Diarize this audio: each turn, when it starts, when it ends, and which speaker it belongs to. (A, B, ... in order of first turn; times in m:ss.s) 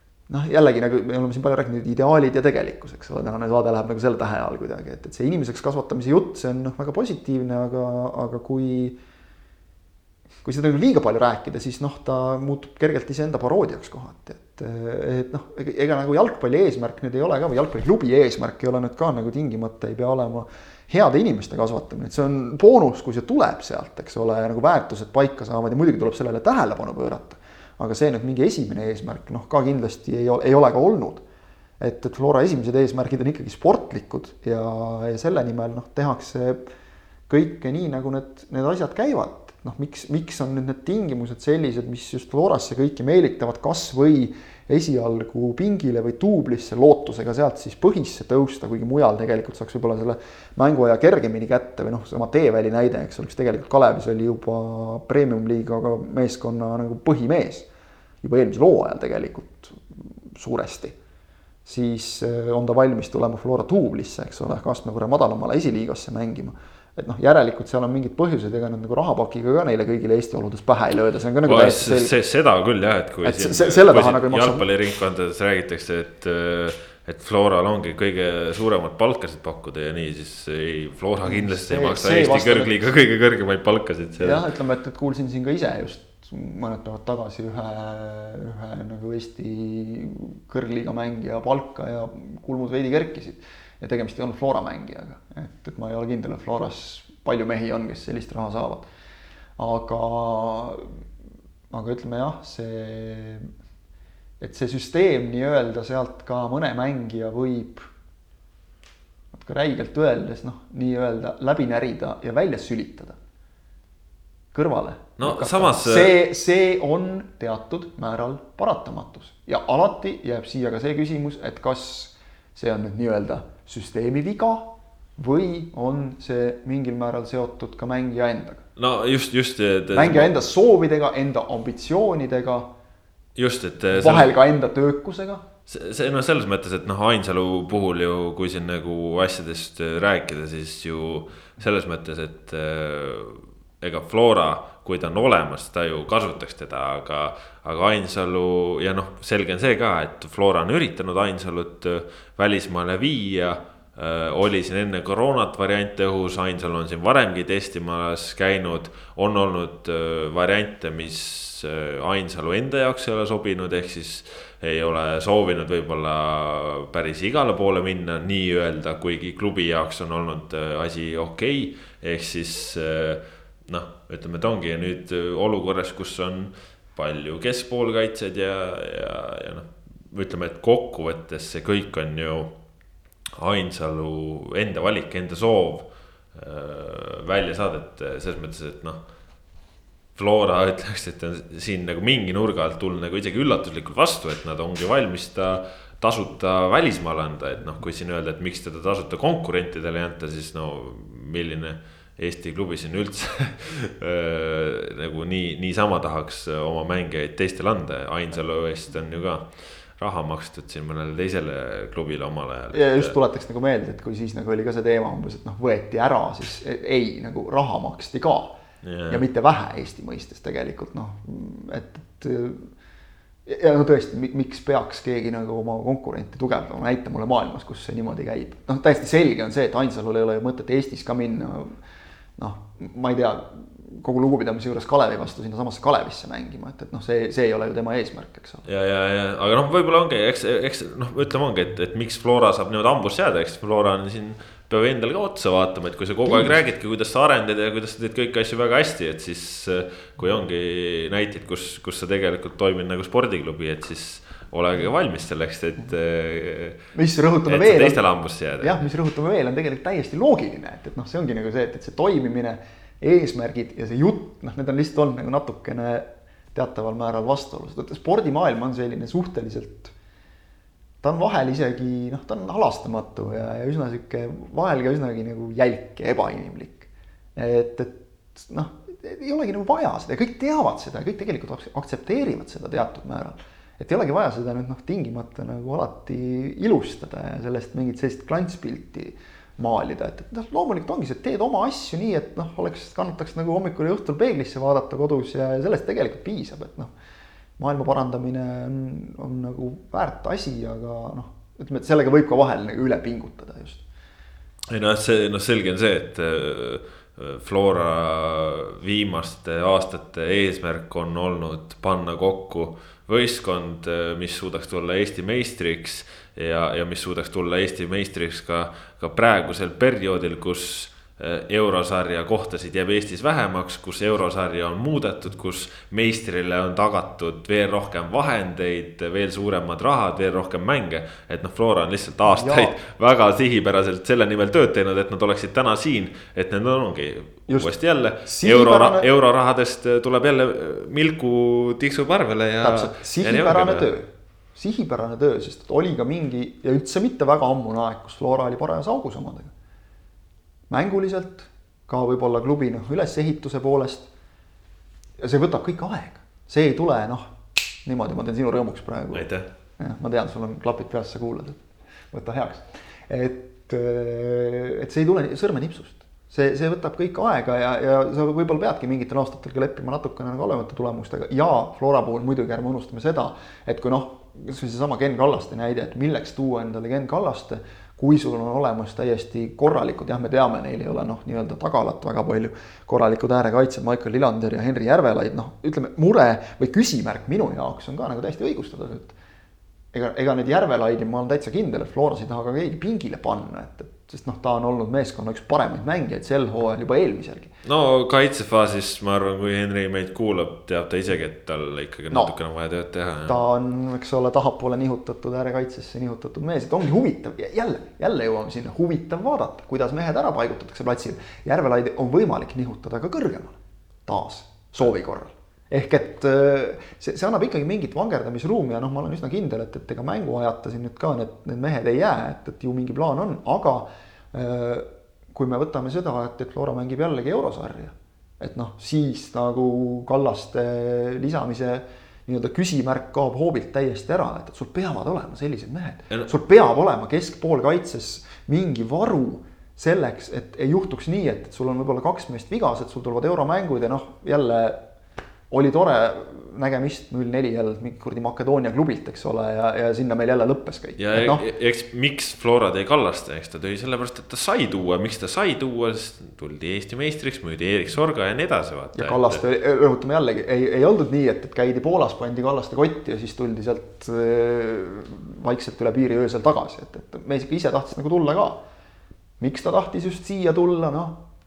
0:00.3-0:09.0 A
0:10.4-0:31.2 A
0:31.8-0:36.7 A
0:37.3-0:57.7 A
0:58.2-1:01.0 A
1:01.6-1:12.1 A
1:11.5-1:24.4 B
1:13.2-1:14.6 A
1:21.2-1:22.9 A
1:24.2-1:38.9 A
1:39.6-1:40.9 A
1:41.7-1:43.5 A
1:44.4-1:47.9 A
1:49.3-1:53.2 A
1:54.5-2:08.6 A
1:55.2-1:56.2 B
2:08.8-2:10.3 B
2:09.9-2:12.7 A
2:13.4-2:14.3 B
2:13.9-2:15.4 A
2:15.7-3:02.6 B
3:03.4-3:09.0 B
3:10.2-3:33.1 B
3:32.7-3:38.6 A
3:38.8-3:39.2 B
3:39.1-3:42.7 A
3:43.5-3:51.8 A
3:52.4-3:58.6 A
3:58.6-4:16.8 B
4:06.3-4:06.6 A
4:17.0-4:18.0 A
4:17.5-4:18.9 B
4:18.6-4:29.9 A
4:31.0-4:56.9 A
4:57.6-5:03.8 A
5:04.7-5:43.9 B
5:32.3-5:32.8 A
5:38.2-5:39.1 A
5:42.6-5:49.5 A
5:50.7-5:54.1 A
5:55.2-5:57.2 A
5:57.8-6:01.6 A
5:59.1-5:59.5 B
6:02.1-6:29.2 A
6:29.9-6:37.6 A
6:37.6-6:43.4 B
6:43.2-7:24.8 A
7:25.5-7:31.4 A
7:31.0-7:39.4 B
7:39.0-7:48.6 A
7:49.4-7:51.2 A